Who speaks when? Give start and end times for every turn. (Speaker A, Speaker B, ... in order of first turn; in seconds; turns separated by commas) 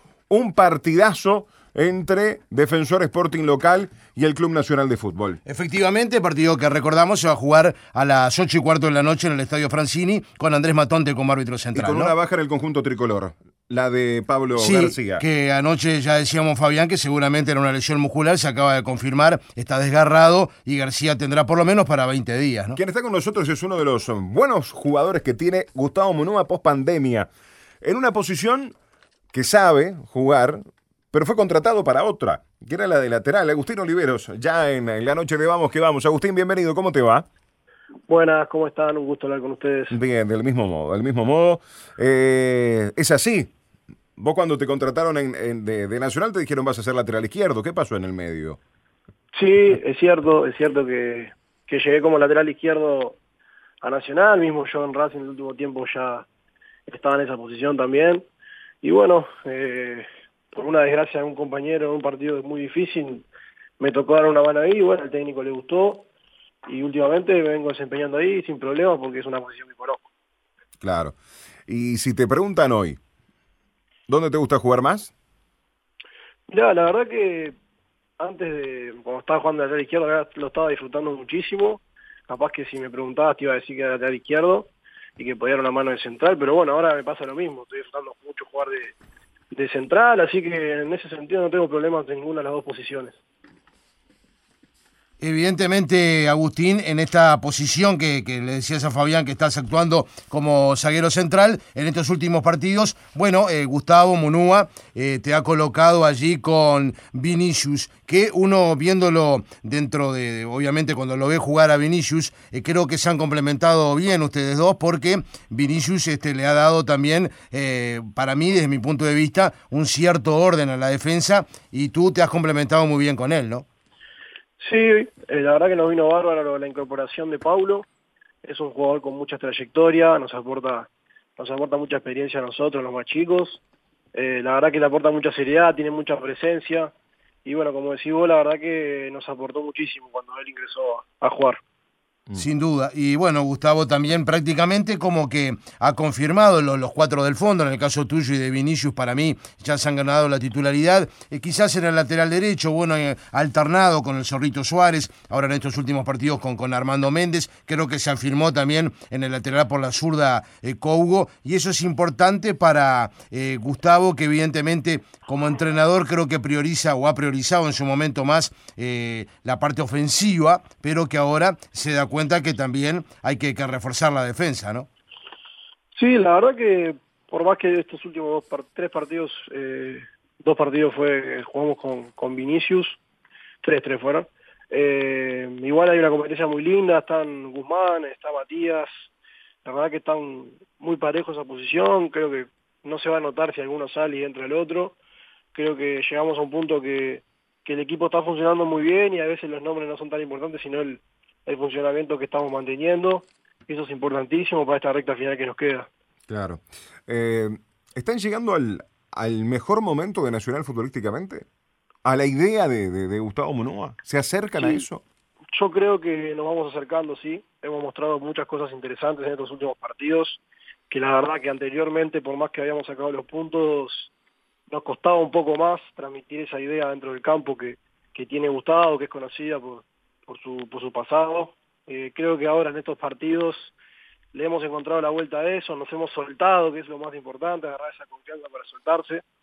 Speaker A: 0.3-5.4, Speaker B: 5.5-12.1, Speaker A: 11.7-15.2, Speaker B: 14.6-22.8, Speaker A: 22.8-27.3, Speaker A: 27.8-28.7, Speaker A: 29.3-37.2, Speaker C: 38.1-40.0, Speaker A: 39.9-43.5, Speaker A: 44.2-48.6, Speaker C: 49.3-53.2, Speaker C: 53.8-56.2, Speaker C: 56.9-58.3, Speaker C: 58.8-63.2, Speaker C: 63.8-66.1, Speaker C: 66.7-70.1, Speaker A: 70.8-71.2, Speaker A: 71.7-73.0, Speaker A: 74.1-75.1, Speaker C: 76.5-77.5, Speaker C: 78.2-89.0, Speaker C: 89.5-93.2, Speaker B: 95.2-123.6, Speaker C: 124.6-127.8, Speaker C: 128.4-133.6, Speaker C: 134.1-136.9, Speaker C: 137.4-141.6, Speaker B: 142.3-174.9, Speaker C: 175.9-183.0, Speaker C: 183.6-189.1, Speaker C: 189.6-194.9, Speaker C: 195.5-205.9, Speaker A: 206.3-211.4, Speaker A: 212.0-215.0, Speaker C: 214.6-214.8, Speaker C: 215.5-224.1, Speaker C: 224.7-233.7, Speaker C: 234.3-239.2